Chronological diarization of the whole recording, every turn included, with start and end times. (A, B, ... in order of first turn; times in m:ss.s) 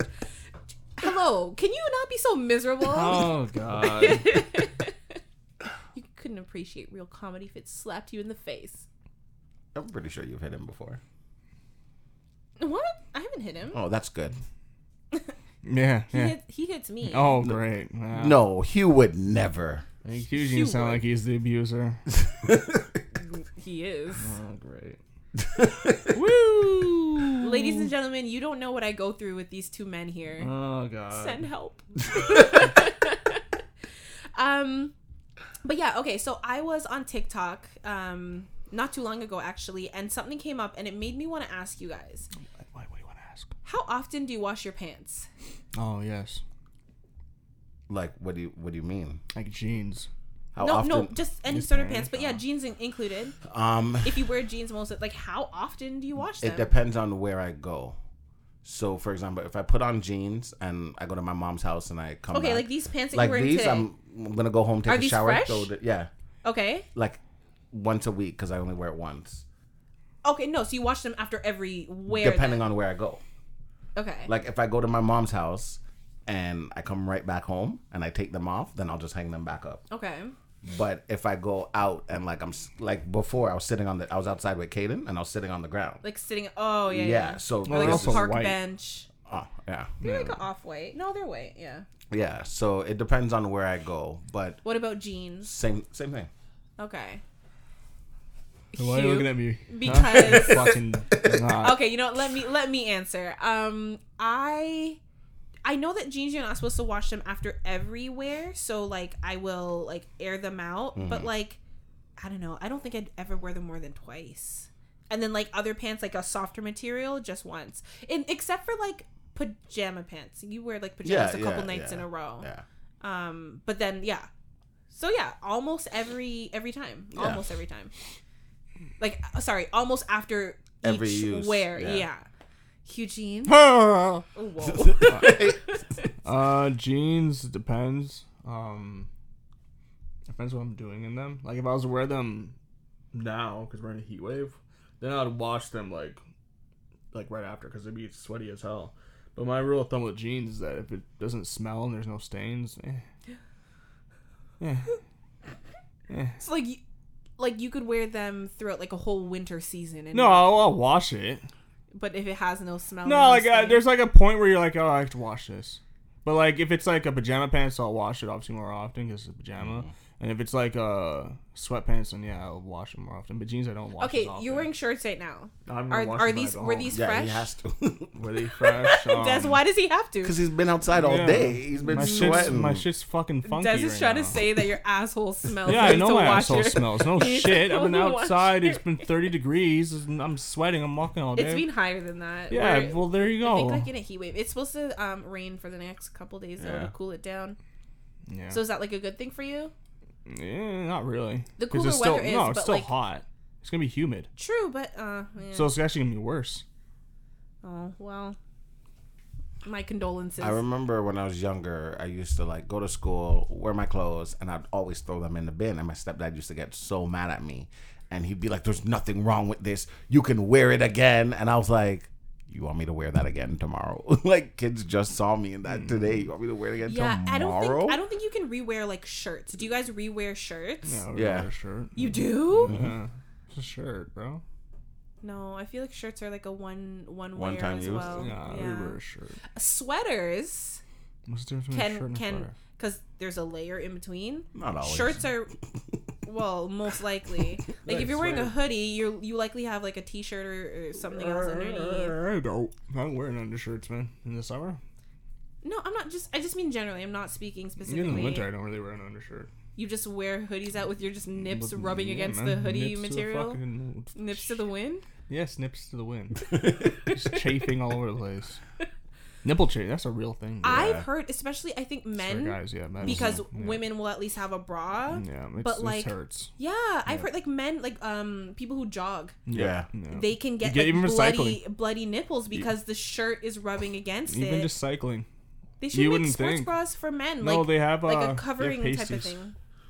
0:01.0-0:04.9 A
0:02.8-0:04.4 B
0:06.0-0:08.9 A
0:09.8-0:11.0 C
0:12.6-0:13.8 A
0:13.7-0:14.4 C
0:15.6-0:16.4 B
0:16.1-0:17.4 A
0:17.1-0:18.4 B
0:18.1-0:19.8 C
0:20.0-0:22.0 B
0:20.3-0:21.0 A
0:22.4-0:22.8 C
0:23.3-0:24.3 A
0:24.2-0:25.0 B
0:25.4-0:26.1 C
0:26.1-0:27.9 B
0:27.4-0:30.5 A
0:30.4-0:31.4 B
0:31.1-0:33.4 A
0:34.4-0:34.9 A
0:35.6-0:42.3 A
0:42.6-0:43.5 B
0:43.6-0:45.3 A
0:45.8-0:46.4 B
0:47.9-0:49.2 C
0:49.3-0:50.1 B
0:50.5-0:51.2 C
0:50.6-0:53.4 A
0:51.5-0:52.4 B
0:53.4-0:54.2 C
0:54.0-0:56.7 A
0:56.4-0:58.0 C
0:58.6-1:06.1 C
1:02.3-1:03.9 A
1:04.9-1:05.7 A
1:06.4-1:06.9 A
1:07.0-1:07.2 C
1:07.7-1:09.4 C
1:10.2-1:12.6 A
1:12.1-1:13.2 C
1:14.0-1:14.3 A
1:14.3-1:19.8 C
1:19.9-1:20.3 A
1:20.6-1:26.0 C
1:26.0-1:29.1 A
1:26.9-1:28.3 C
1:27.7-1:28.6 B
1:29.3-1:29.9 C
1:30.0-1:31.8 A
1:30.0-1:30.4 B
1:32.1-1:34.6 C
1:34.6-1:35.5 A
1:35.4-1:36.3 C
1:36.8-1:37.2 A
1:38.7-1:40.8 A
1:38.8-1:41.8 B
1:41.6-1:45.0 A
1:45.6-1:51.6 A
1:51.0-1:51.3 C
1:52.2-2:02.5 A
2:01.0-2:02.6 C
2:03.0-2:04.3 A
2:04.9-2:07.9 A
2:07.1-2:07.4 C
2:09.0-2:12.2 A
2:10.8-2:12.1 C
2:12.8-2:13.6 A
2:13.5-2:14.3 B
2:14.4-2:15.8 A
2:14.8-2:15.6 C
2:16.2-2:19.1 B
2:20.3-2:22.6 B
2:23.1-2:26.2 B
2:27.1-2:33.0 B
2:34.6-2:35.0 B
2:36.1-2:36.4 B
2:36.4-2:36.8 A
2:37.4-2:40.5 A
2:40.1-2:41.4 B
2:42.0-2:43.9 A
2:43.0-2:54.7 B
2:49.6-2:49.9 C
2:54.0-2:57.5 A
2:55.7-2:56.9 B
2:56.9-2:58.1 C
2:58.2-2:59.6 B
2:58.7-3:00.4 A
3:00.2-3:02.8 C
3:00.9-3:04.4 B
3:01.9-3:02.5 A
3:03.4-3:09.1 A
3:05.6-3:11.7 B
3:11.4-3:17.6 A
3:12.5-3:13.9 B
3:16.6-3:16.9 C
3:18.3-3:18.6 B
3:18.5-3:19.7 A
3:20.3-3:24.3 B
3:21.6-3:22.9 A
3:24.4-3:25.7 A
3:25.5-3:26.6 B
3:27.6-3:28.4 A
3:29.6-3:30.6 A
3:30.4-3:48.0 C
3:45.7-3:46.1 B
3:46.9-3:51.0 A
3:50.9-3:54.4 B
3:51.1-3:51.5 C
3:52.0-3:52.8 A
3:52.6-3:52.9 C
3:55.2-3:59.0 A
3:57.4-3:58.3 C
3:58.1-3:59.4 B
3:59.6-4:00.8 A
4:01.3-4:02.5 B
4:01.7-4:05.5 A
4:04.6-4:05.2 C
4:06.3-4:12.2 A
4:07.8-4:08.6 B
4:11.0-4:14.8 B
4:15.6-4:18.5 A
4:17.9-4:19.5 B
4:19.8-4:23.6 A
4:21.4-4:24.6 B
4:24.2-4:25.0 A
4:25.3-4:26.5 B
4:27.1-4:28.6 B
4:27.1-4:27.4 A
4:29.4-4:30.9 B
4:30.6-4:39.4 A
4:30.6-4:31.1 C
4:32.2-4:33.9 B
4:33.0-4:33.4 C
4:35.2-4:36.5 B
4:39.5-4:41.6 B
4:39.5-4:39.9 C
4:40.1-4:44.7 A
4:44.3-4:45.3 B
4:45.8-4:49.5 A
4:45.9-4:46.7 B
4:47.4-4:49.4 B